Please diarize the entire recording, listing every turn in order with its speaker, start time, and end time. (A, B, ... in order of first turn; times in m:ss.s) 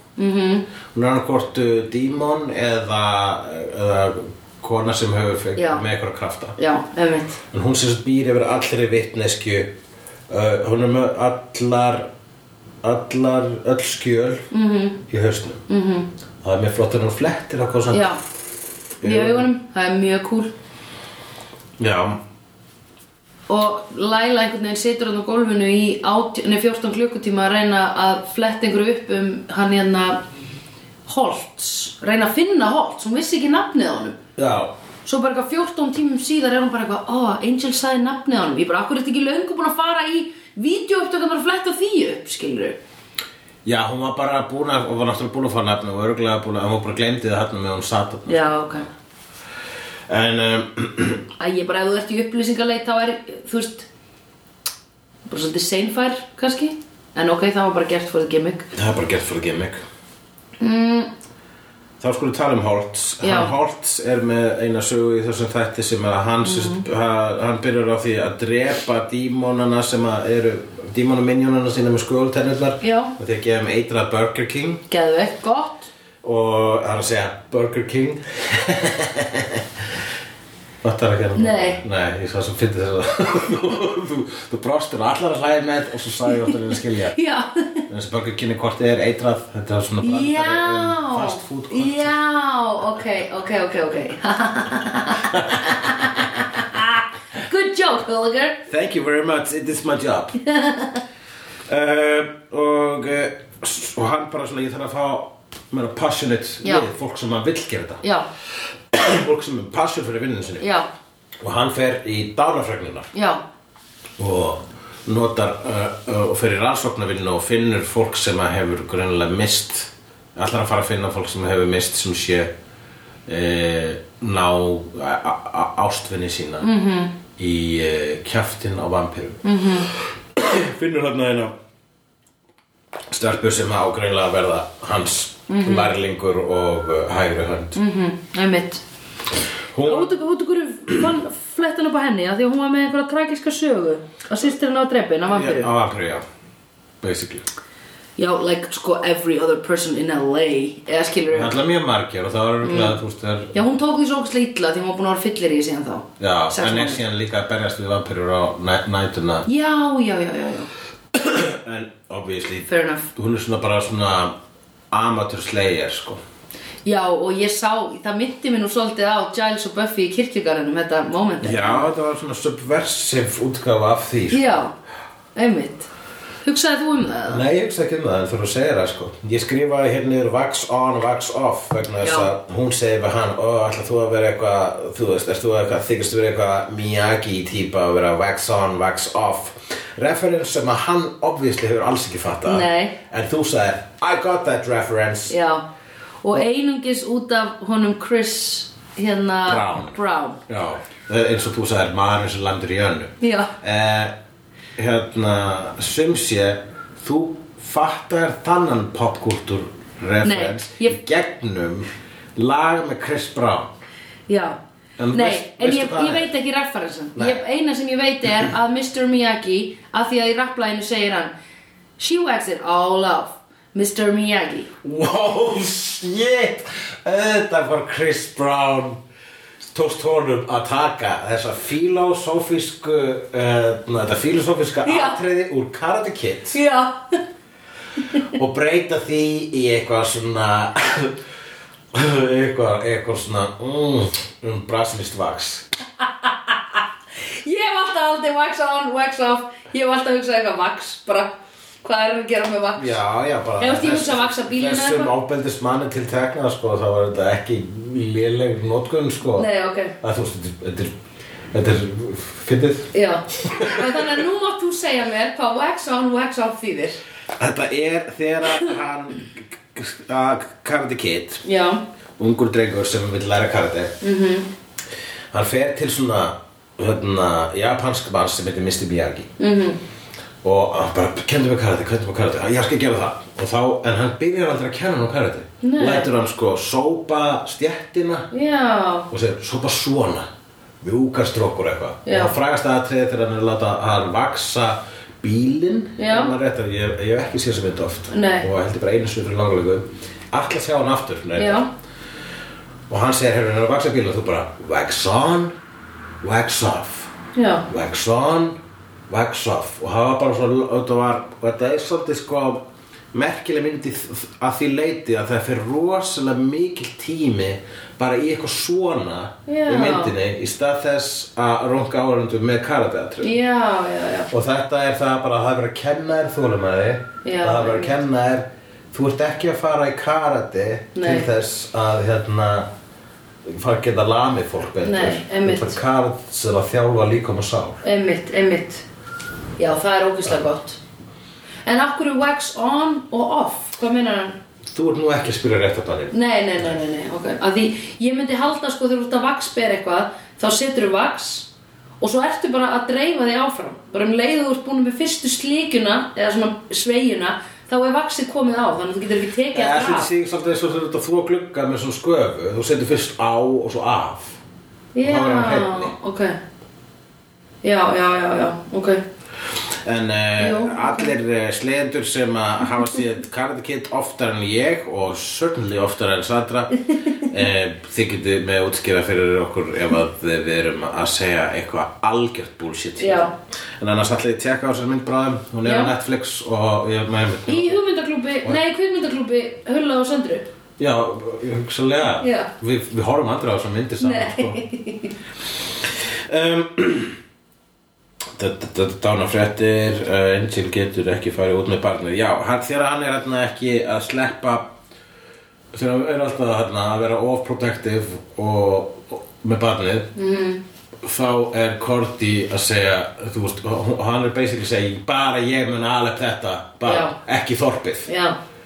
0:00.2-0:00.7 A
0:00.9-0:06.6 B
0:05.6-0:05.8 A
0:06.6-0:07.4 A
0:07.5-0:09.7 B
0:10.3-0:12.1 B
0:12.8-0:14.5 B
0:14.5-0:15.0 A
0:15.1-0:15.6 B
0:15.7-0:16.1 A
0:16.4-0:18.2 B
0:17.9-0:18.2 A
0:19.0-0:19.5 B
0:19.0-0:20.5 A
0:21.8-0:22.2 B
0:23.5-0:30.2 A
0:31.0-0:34.2 A
0:34.4-0:34.7 B
0:35.0-0:42.8 A
0:43.6-0:48.8 B
0:48.3-0:48.9 A
0:50.1-0:51.2 B
0:51.4-0:53.9 A
0:55.3-0:58.7 A
0:58.7-0:59.8 B
1:00.6-1:01.1 A
1:02.0-1:14.8 B
1:03.2-1:03.5 A
1:06.4-1:06.8 A
1:12.8-1:13.1 A
1:14.9-1:15.9 A
1:16.2-1:19.6 B
1:20.8-1:27.2 B
1:21.3-1:21.8 A
1:27.1-1:27.8 A
1:27.9-1:32.2 B
1:30.0-1:38.6 A
1:35.3-1:35.9 B
1:38.7-1:40.4 B
1:40.4-1:41.0 A
1:41.7-1:48.0 B
1:48.0-1:48.3 A
1:48.9-1:50.7 B
1:50.6-1:50.9 A
1:51.4-1:53.1 B
1:53.1-1:53.4 A
1:54.2-2:02.5 B
2:03.3-2:06.7 B
2:06.6-2:07.2 A
2:07.4-2:11.5 B
2:09.4-2:09.9 A
2:13.1-2:17.8 B
2:15.5-2:15.9 A
2:17.7-2:18.8 A
2:19.7-2:20.1 B
2:19.8-2:25.7 A
2:25.2-2:26.2 B
2:27.0-2:27.4 B
2:28.2-2:31.6 A
2:31.3-2:33.6 B
2:32.6-2:33.0 A
2:33.5-2:37.0 A
2:36.2-2:39.5 B
2:39.4-2:40.7 A
2:41.1-2:44.4 B
2:42.7-2:43.1 A
2:44.9-2:46.2 B
2:46.8-2:51.9 A
2:51.4-2:54.6 B
2:54.3-2:54.7 A
2:55.3-2:55.9 A
2:56.4-2:57.4 A
2:57.3-3:15.4 B
3:02.0-3:02.3 A
3:12.4-3:13.0 A
3:15.3-3:15.6 A
3:16.2-3:20.4 A
3:19.4-3:20.0 B
3:20.5-3:24.1 B
3:23.2-3:23.5 A
3:24.8-3:33.7 B
3:30.2-3:31.0 A
3:34.3-3:34.6 A
3:35.0-3:36.3 B
3:35.1-3:41.3 A
3:37.1-3:37.4 B
3:42.0-3:44.7 A
3:44.8-3:49.0 B
3:49.7-3:56.6 B
3:54.8-3:55.2 A
3:56.5-3:57.1 A
3:58.2-4:01.2 B
4:01.9-4:05.6 B
4:07.3-4:13.0 A
4:12.8-4:19.5 B
4:13.6-4:15.1 A
4:19.3-4:20.0 A
4:20.0-4:20.9 B
4:21.5-4:24.2 B
4:22.9-4:27.0 A
4:27.4-4:31.4 B
4:31.4-4:31.8 A
4:32.2-4:33.9 B
4:34.0-4:34.5 A
4:35.3-4:39.3 B
4:39.4-4:39.8 A
4:40.4-4:48.3 B
4:45.6-4:46.1 A
4:48.3-4:49.1 A
4:49.1-4:50.3 B
4:50.8-5:01.6 B
4:52.0-4:52.3 A
4:56.0-4:56.3 A
4:58.1-4:58.5 A
5:01.4-5:01.7 A
5:02.9-5:05.5 B
5:06.2-5:07.1 B
5:07.3-5:07.7 A
5:07.7-5:08.6 B
5:09.1-5:23.4 B
5:19.5-5:20.1 A
5:23.2-5:24.3 A
5:24.3-5:32.7 B
5:27.2-5:28.0 A
5:30.9-5:31.3 A
5:33.4-5:37.8 B
5:34.8-5:35.8 A
5:37.8-5:38.8 A
5:39.6-5:40.8 A
5:41.6-5:44.4 A
5:44.7-5:46.1 B
5:46.1-6:00.1 A
5:59.5-6:04.4 B
6:04.9-6:06.4 A
6:05.0-6:05.9 B
6:07.6-6:09.0 A
6:09.7-6:27.8 B
6:10.4-6:11.1 A
6:23.0-6:23.3 A
6:25.6-6:25.9 A
6:27.5-6:30.5 A
6:30.8-6:34.6 B
6:32.2-6:32.5 A
6:34.0-6:35.1 A
6:35.9-6:37.2 B
6:38.3-6:44.7 B
6:45.7-6:50.1 B
6:50.2-6:50.6 A
6:51.0-6:58.1 B
6:56.8-6:57.2 A
6:58.1-6:58.4 A